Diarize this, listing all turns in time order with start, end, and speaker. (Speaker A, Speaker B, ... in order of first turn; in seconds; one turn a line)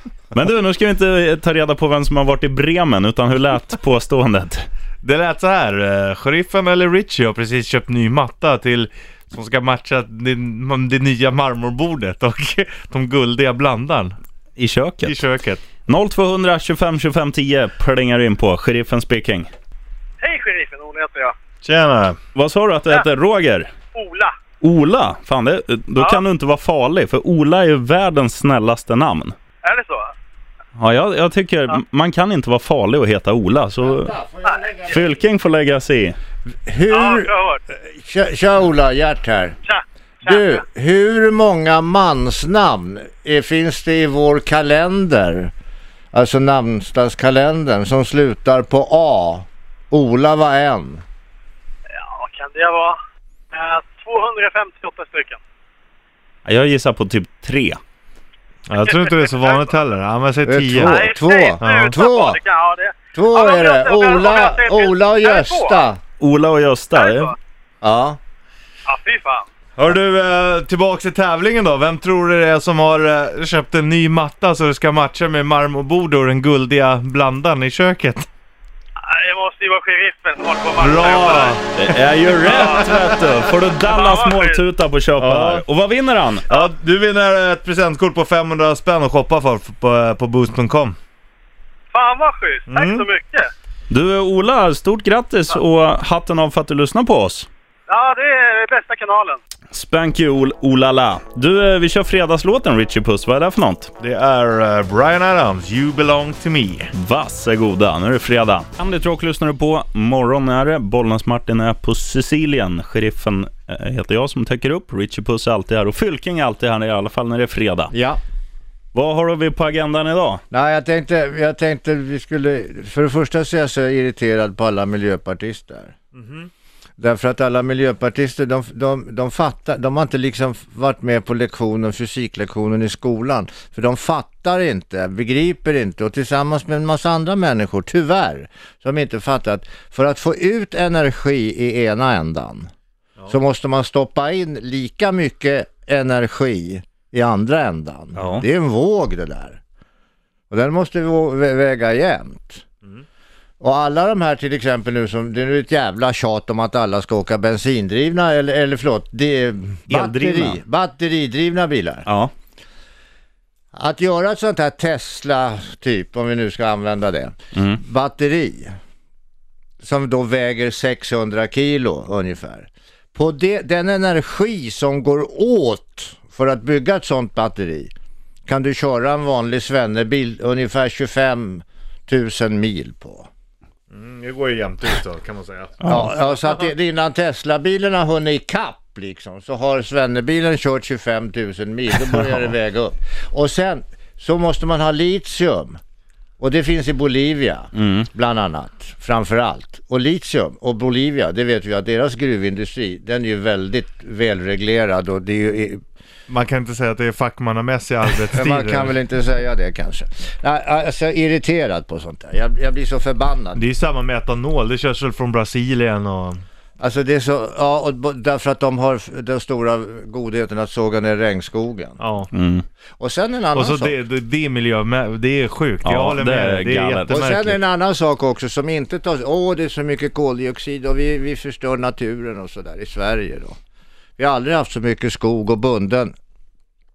Speaker A: 0.3-4.7
Speaker B: 5.0-14.2
Speaker A: 14.6-15.2
Speaker B: 15.0-15.6
Speaker A: 15.9-19.5
Speaker C: 20.2-21.3
Speaker B: 21.6-22.2
Speaker A: 22.3-23.7
Speaker C: 23.9-24.3
Speaker A: 24.6-29.4
Speaker C: 25.9-26.2
Speaker C: 29.6-30.1
Speaker A: 30.8-34.1
Speaker D: 33.8-35.1
Speaker A: 34.9-36.2
Speaker D: 36.6-37.3
Speaker C: 36.9-37.6
Speaker D: 37.9-39.6
Speaker C: 39.6-40.6
Speaker D: 40.2-45.5
Speaker D: 46.1-51.0
Speaker C: 51.9-53.0
Speaker C: 53.5-55.4
Speaker A: 56.4-57.8
Speaker B: 58.7-61.0
Speaker C: 58.8-59.7
Speaker D: 60.4-62.4
Speaker C: 60.8-65.9
Speaker B: 61.6-62.0
Speaker D: 63.1-66.0
Speaker A: 66.2-67.3
Speaker C: 66.9-67.3
Speaker D: 67.8-68.2
Speaker C: 68.8-69.5
Speaker B: 69.8-78.3
Speaker C: 79.0-81.7
Speaker B: 80.8-81.6
Speaker A: 81.7-86.5
Speaker C: 82.4-84.6
Speaker B: 85.2-85.6
Speaker B: 86.5-91.0
Speaker C: 91.9-93.5
Speaker B: 92.7-93.1
Speaker A: 93.9-97.5
Speaker C: 97.9-99.4
Speaker A: 99.7-103.9
Speaker B: 104.0-106.9
Speaker A: 106.9-117.9
Speaker D: 117.9-118.2
Speaker A: 118.9-120.4
Speaker D: 120.5-125.9
Speaker B: 126.1-126.5
Speaker D: 127.0-142.7
Speaker D: 143.3-149.6
Speaker B: 148.2-148.4
Speaker A: 148.2-148.4
Speaker D: 150.5-152.6
Speaker D: 153.6-162.1
Speaker A: 159.9-160.6
Speaker A: 162.1-162.3
Speaker D: 163.8-168.7
Speaker A: 167.5-167.8
Speaker D: 169.8-177.9
Speaker D: 178.5-183.3
Speaker B: 183.9-186.2
Speaker A: 185.8-186.1
Speaker D: 185.9-195.8
Speaker D: 196.4-205.8
Speaker A: 197.7-198.1
Speaker B: 206.3-208.9
Speaker D: 208.3-213.6
Speaker B: 213.6-216.4
Speaker D: 216.8-222.0
Speaker B: 222.0-222.3
Speaker A: 222.3-222.6
Speaker D: 223.0-224.0
Speaker B: 223.5-227.6
Speaker A: 225.8-227.2
Speaker D: 227.1-233.6
Speaker D: 234.2-236.2